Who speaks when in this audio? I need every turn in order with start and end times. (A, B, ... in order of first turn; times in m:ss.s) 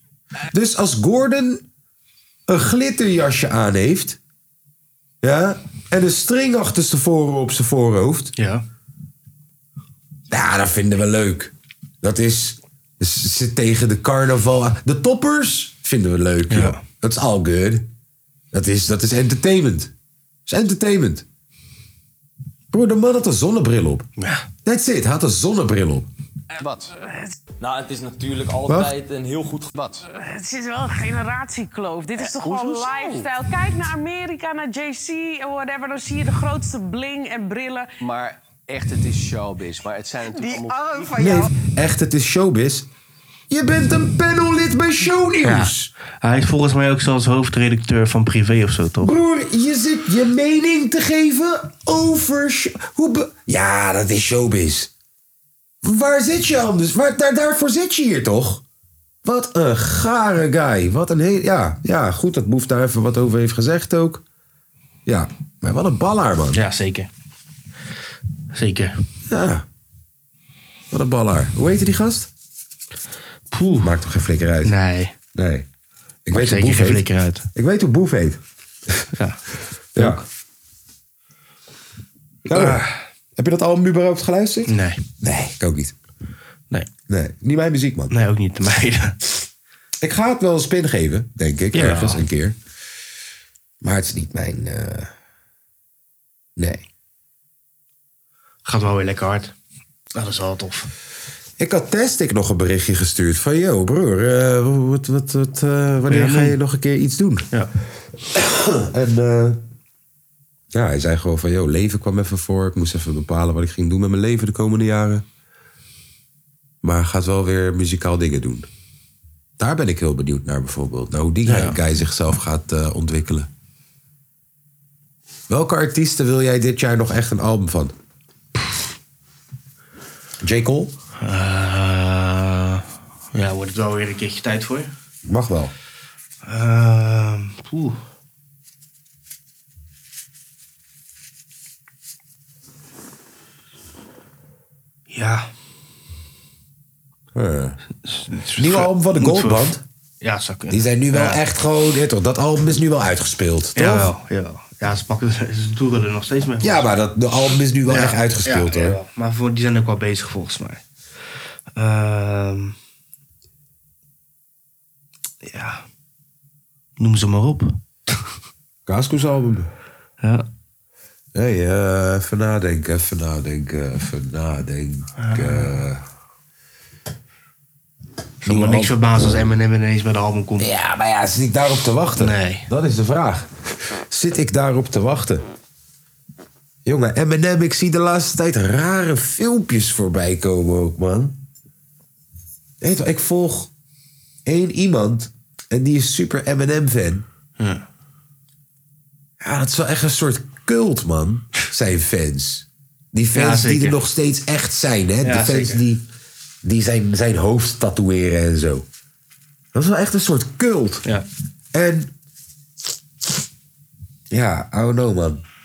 0:00.5-0:01.6 A
0:02.5-0:04.2 A
0:05.2-0:08.3 A
0:08.4-0:08.6 B
0:10.3-0:17.9 A
0:16.5-0:16.8 B
0:18.5-0:19.9 A
0:20.5-0:21.2 A
0:22.7-0:24.1 A
0:24.2-0:24.5 B
0:24.6-0:26.1 A
0:26.6-0:26.9 C
0:27.6-0:29.8 D
0:28.7-0:28.9 A
0:29.7-0:30.0 C
0:30.1-0:37.9 E
0:32.2-0:33.3 C
0:38.0-0:41.4 C
0:40.3-0:40.8 E
0:41.2-0:42.9 A
0:43.5-0:45.9 A
0:45.4-0:45.7 B
0:46.2-0:49.1 B
0:49.0-0:54.9 A
0:55.8-0:58.6 A
0:59.2-1:04.2 A
1:05.1-1:06.6 A
1:06.5-1:07.1 B
1:08.5-1:08.9 B
1:09.3-1:09.6 A
1:10.9-1:12.3 A
1:13.5-1:13.9 B
1:13.8-1:14.8 A
1:14.6-1:15.2 B
1:15.3-1:15.7 A
1:16.3-1:19.0 A
1:16.3-1:17.5 B
1:19.1-1:19.4 B
1:20.0-1:20.2 A
1:20.0-1:20.2 B
1:22.5-1:26.0 A
1:22.5-1:22.9 B
1:24.7-1:25.0 B
1:27.1-1:28.1 A
1:28.1-1:29.2 B
1:30.0-1:32.6 A
1:31.7-1:32.2 B
1:33.8-1:35.1 A
1:36.6-1:36.9 A
1:38.6-1:39.5 B
1:40.2-1:40.9 B
1:41.6-1:47.5 A
1:46.1-1:46.6 B
1:48.3-1:49.6 A
1:50.7-1:55.2 A
1:56.8-1:58.7 A
1:59.6-2:03.5 A
2:01.5-2:01.8 B
2:05.5-2:07.9 A
2:10.4-2:10.9 A
2:11.2-2:14.9 B
2:15.2-2:15.7 A
2:16.4-2:18.0 B
2:25.1-2:25.5 B
2:27.3-2:27.8 A
2:28.0-2:29.7 B
2:28.6-2:29.8 A
2:30.2-2:31.4 B
2:30.7-2:34.1 A
2:33.8-2:36.9 B
2:36.6-2:39.0 A
2:37.9-2:40.8 B
2:41.8-2:42.8 B
2:45.4-2:45.8 B
2:47.0-2:47.8 B
2:48.9-2:49.7 A
2:51.3-2:56.0 A
2:55.2-2:55.8 B
2:58.4-3:00.7 B
2:58.4-2:59.0 A
3:00.6-3:05.4 A
3:02.2-3:02.7 B
3:06.8-3:11.4 A
3:12.8-3:13.7 A
3:14.5-3:17.3 A
3:17.6-3:17.8 B
3:19.4-3:26.0 A
3:23.4-3:24.0 B
3:25.2-3:25.8 B
3:26.6-3:28.9 A
3:29.7-3:31.1 A
3:31.7-3:32.1 A
3:34.3-3:35.4 A